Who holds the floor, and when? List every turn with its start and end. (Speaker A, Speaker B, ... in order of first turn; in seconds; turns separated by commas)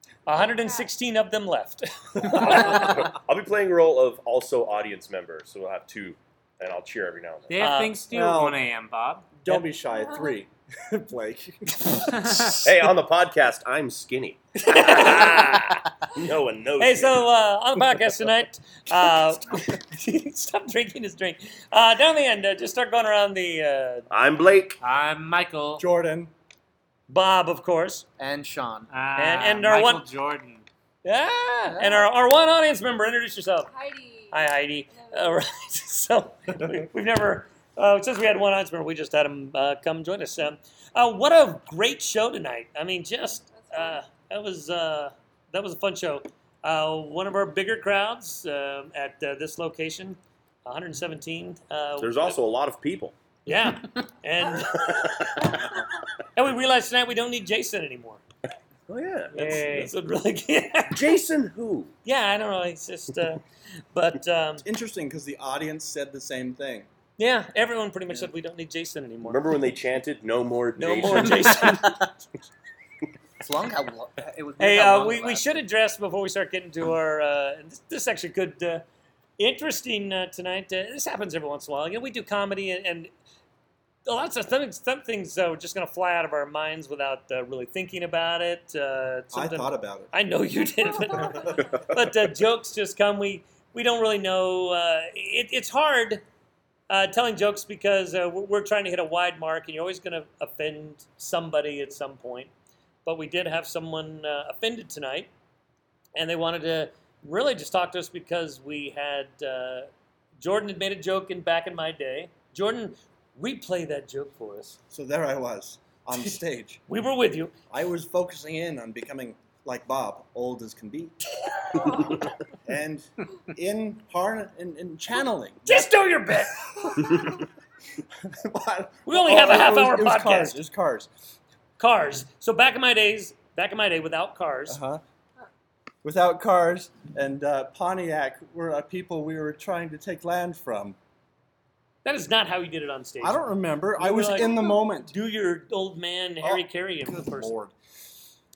Speaker A: 0.2-3.0, Speaker B: 0.3-0.9, Speaker C: 2.3-7.7, Speaker D: 7.5-9.6, Speaker A: 7.6-8.0, Speaker E: 8.1-8.6, Speaker E: 9.4-11.9, Speaker B: 10.1-10.3, Speaker C: 12.4-17.2, Speaker A: 14.6-15.8, Speaker A: 16.8-24.1, Speaker C: 24.1-24.8, Speaker D: 24.8-25.8, Speaker E: 25.8-26.3, Speaker A: 27.1-28.1, Speaker F: 28.2-28.9, Speaker D: 28.9-30.6, Speaker A: 29.1-30.0, Speaker A: 31.0-33.7, Speaker F: 31.7-32.0, Speaker B: 33.7-35.4, Speaker A: 34.3-52.4, Speaker B: 43.5-44.0, Speaker C: 52.0-53.1, Speaker A: 53.5-55.8, Speaker C: 54.9-55.5, Speaker A: 56.3-58.2, Speaker C: 58.9-59.9, Speaker A: 59.3-61.2, Speaker D: 59.4-59.8, Speaker C: 60.9-61.9, Speaker A: 62.0-64.6, Speaker E: 64.6-66.9, Speaker A: 67.2-69.4, Speaker C: 69.2-72.0, Speaker A: 70.8-72.0, Speaker F: 71.3-71.8, Speaker F: 73.4-75.6, Speaker A: 74.6-78.8, Speaker A: 79.4-83.1, Speaker A: 84.0-96.2, Speaker E: 89.3-90.1, Speaker E: 91.1-91.6, Speaker C: 91.5-92.0, Speaker A: 96.9-102.5, Speaker A: 103.0-105.3, Speaker A: 106.2-114.8, Speaker E: 114.9-116.8, Speaker A: 116.9-117.5, Speaker E: 117.7-121.2, Speaker A: 121.6-121.9, Speaker C: 121.9-122.2, Speaker E: 122.6-127.4, Speaker A: 125.6-127.0, Speaker E: 128.2-131.1, Speaker A: 129.1-130.6, Speaker A: 131.8-134.8, Speaker E: 134.7-135.0, Speaker E: 136.0-141.0, Speaker A: 142.0-143.4, Speaker E: 143.2-145.1, Speaker A: 144.0-147.6, Speaker E: 146.4-147.7